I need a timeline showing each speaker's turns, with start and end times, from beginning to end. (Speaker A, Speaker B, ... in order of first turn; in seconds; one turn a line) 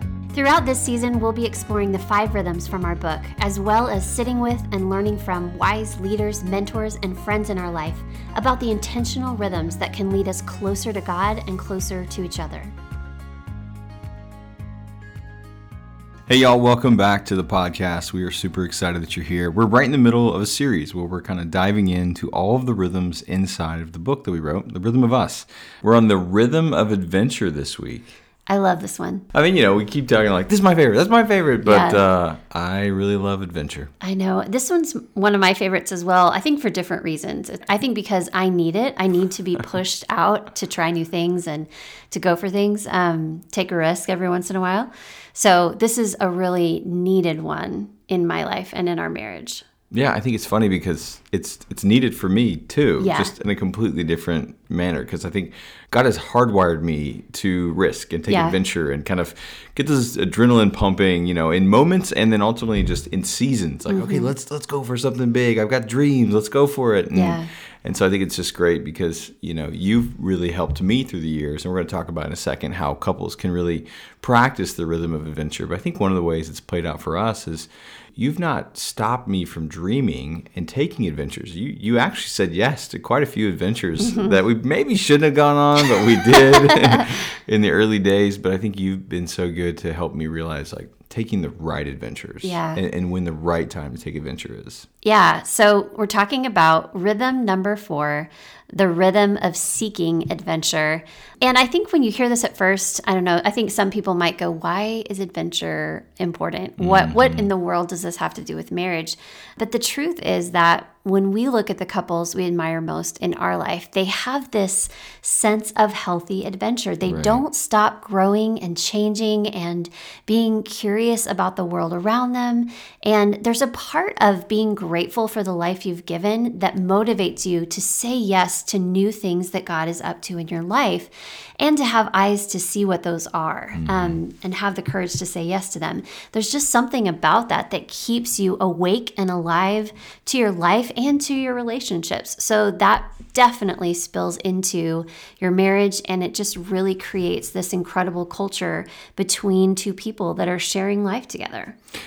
Speaker A: 0.3-12.7
Speaker B: 16.3-28.1
Speaker A: 28.5-29.3
Speaker B: 29.3-33.9
Speaker A: 31.6-32.0
Speaker A: 34.0-49.6
Speaker B: 49.9-94.9
Speaker A: 53.0-53.3
Speaker A: 58.3-58.6
Speaker A: 63.9-64.3
Speaker A: 67.1-67.5
Speaker A: 84.0-84.4
Speaker A: 86.2-87.1
Speaker A: 92.4-92.8
Speaker A: 95.0-151.8
Speaker B: 106.8-107.5
Speaker B: 117.1-117.4
Speaker B: 133.8-134.2